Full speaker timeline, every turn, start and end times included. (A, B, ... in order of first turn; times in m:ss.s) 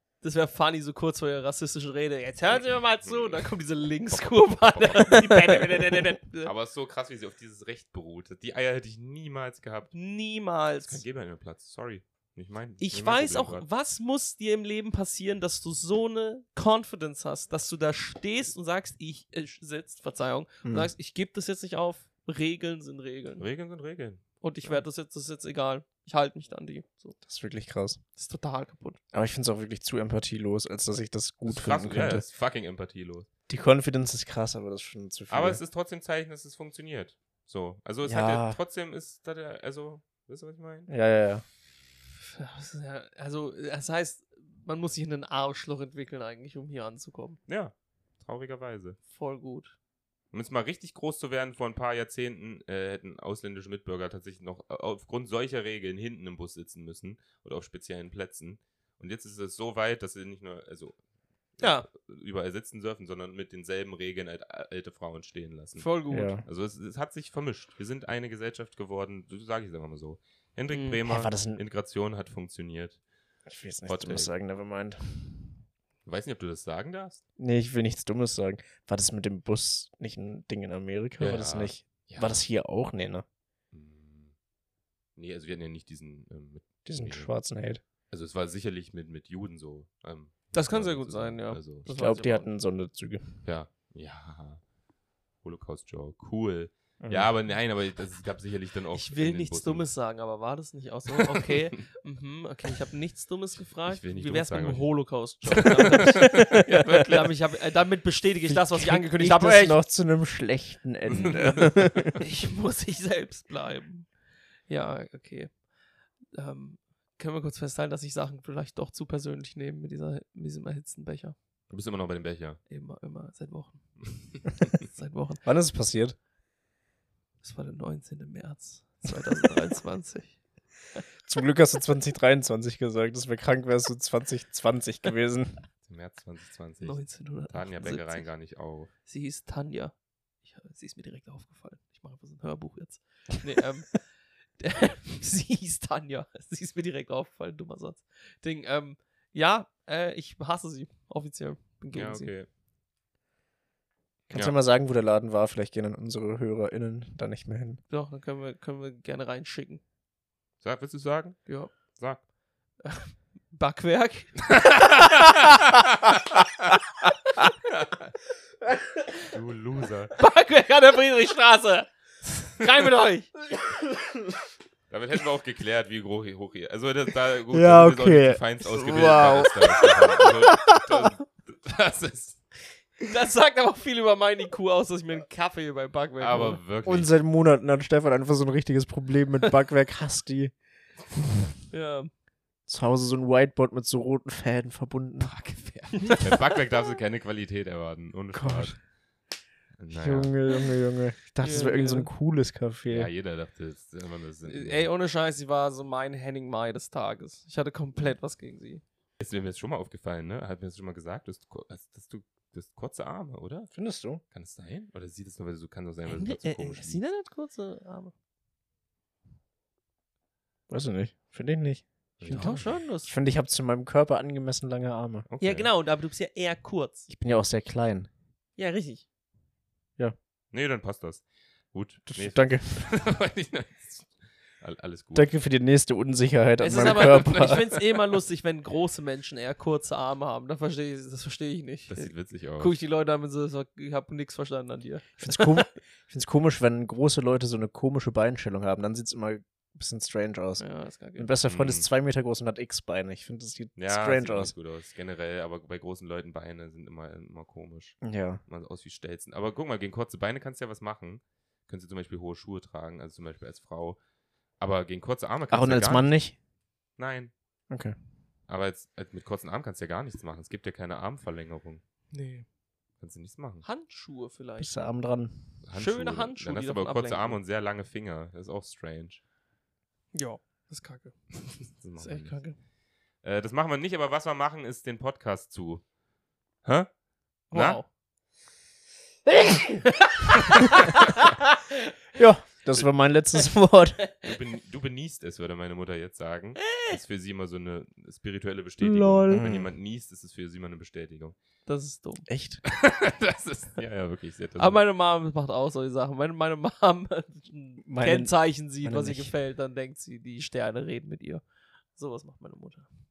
0:00.2-0:06.5 A
0:02.6-0:03.5 B
0:04.1-0:09.9 B
0:09.9-0:11.0 A
0:10.8-0:13.7 B
0:12.8-0:23.5 A
0:20.6-0:20.9 C
0:23.4-0:24.2 B
0:24.4-0:27.2 A
0:27.2-0:28.0 C
0:28.2-0:29.0 A
0:29.1-0:32.2 C
0:31.5-0:33.3 B
0:33.5-0:35.6 C
0:35.3-0:40.9 B
0:38.0-0:38.6 C
0:40.9-0:41.4 C
0:42.2-0:47.4 A
0:47.5-0:49.0 B
0:49.1-0:49.8 A
0:50.3-1:01.0 B
1:01.6-1:05.9 B
1:01.6-1:01.9 A
1:05.8-1:06.4 A
1:06.1-1:06.4 C
1:06.4-1:13.0 B
1:10.7-1:11.0 A
1:11.1-1:11.6 C
1:13.5-1:15.6 C
1:13.9-1:14.3 B
1:16.0-1:17.2 B
1:17.4-1:23.2 C
1:21.2-1:22.4 B
1:23.7-1:24.3 B
1:25.2-1:27.3 B
1:26.9-1:27.8 C
1:28.1-1:31.9 B
1:30.5-1:32.5 A
1:31.9-1:33.4 C
1:33.4-1:34.6 B
1:35.4-1:39.9 B
1:37.0-1:37.3 C
1:38.9-1:49.8 A
1:41.2-1:41.5 B
1:43.9-1:47.4 B
1:46.2-1:46.7 C
1:48.5-1:52.2 C
1:51.1-1:51.7 B
1:51.1-1:54.1 A
1:54.7-1:55.6 A
1:56.3-2:01.4 A
2:01.7-2:02.6 B
2:02.7-2:05.4 A
2:05.4-2:06.2 C
2:07.4-2:10.4 A
2:11.2-2:15.6 C
2:15.8-2:18.9 B
2:16.8-2:18.3 A
2:19.1-2:32.3 A
2:31.9-2:32.5 B
2:34.3-2:37.8 C
2:37.9-2:39.8 A
2:40.6-2:42.2 B
2:41.5-2:41.7 A
2:42.8-2:45.6 A
2:44.5-2:45.8 B
2:47.6-2:48.1 B
2:49.2-2:50.2 B
2:50.2-2:53.3 A
2:54.9-3:02.4 B
2:57.5-3:01.1 C
3:03.0-3:06.6 A
3:06.2-3:07.2 B
3:06.8-3:10.6 C
3:11.7-3:12.1 A
3:12.7-3:15.4 C
3:15.2-3:18.9 B
3:18.3-3:18.8 C
3:19.8-3:20.4 B
3:19.9-3:23.1 C
3:21.4-3:22.1 A
3:22.9-3:24.9 B
3:24.5-3:28.8 A
3:29.2-3:33.7 B
3:33.7-3:34.2 C
3:34.3-3:37.0 B
3:36.1-3:38.1 A
3:40.7-3:45.3 C
3:42.2-3:42.7 B
3:42.3-3:43.1 A
3:45.3-3:45.7 B
3:45.4-3:47.1 A
3:47.1-3:48.1 C
3:48.6-3:49.0 A
3:50.5-3:55.3 B
3:52.1-3:52.9 C
3:55.2-3:57.6 C
3:56.6-4:05.6 A
3:56.7-3:58.2 B
4:01.9-4:02.8 B
4:05.2-4:10.6 C
4:10.6-4:11.3 A
4:11.2-4:14.5 C
4:11.4-4:11.9 B
4:13.8-4:24.0 B
4:18.0-4:18.4 C
4:24.6-4:26.1 B
4:25.5-4:26.4 C
4:27.0-4:27.3 B
4:27.7-4:28.0 C
4:28.5-4:31.8 B
4:32.1-4:32.5 A
4:33.0-4:33.7 B
4:33.6-4:34.8 A
4:34.6-4:35.6 C
4:35.6-4:39.2 B
4:35.7-4:37.4 A
4:40.1-4:42.6 A
4:41.6-4:42.5 B
4:43.2-4:45.8 B
4:46.6-4:47.0 B
4:47.5-4:47.8 B
4:47.5-4:47.9 A
4:50.3-4:50.9 A
4:52.2-4:54.0 C
4:54.2-5:01.4 B
4:56.6-4:57.0 A
4:58.8-4:59.7 C
5:01.7-5:02.3 A
5:02.3-5:02.6 C
5:02.6-5:04.8 B
5:04.6-5:11.4 A
5:07.8-5:09.3 C
5:12.0-5:12.9 A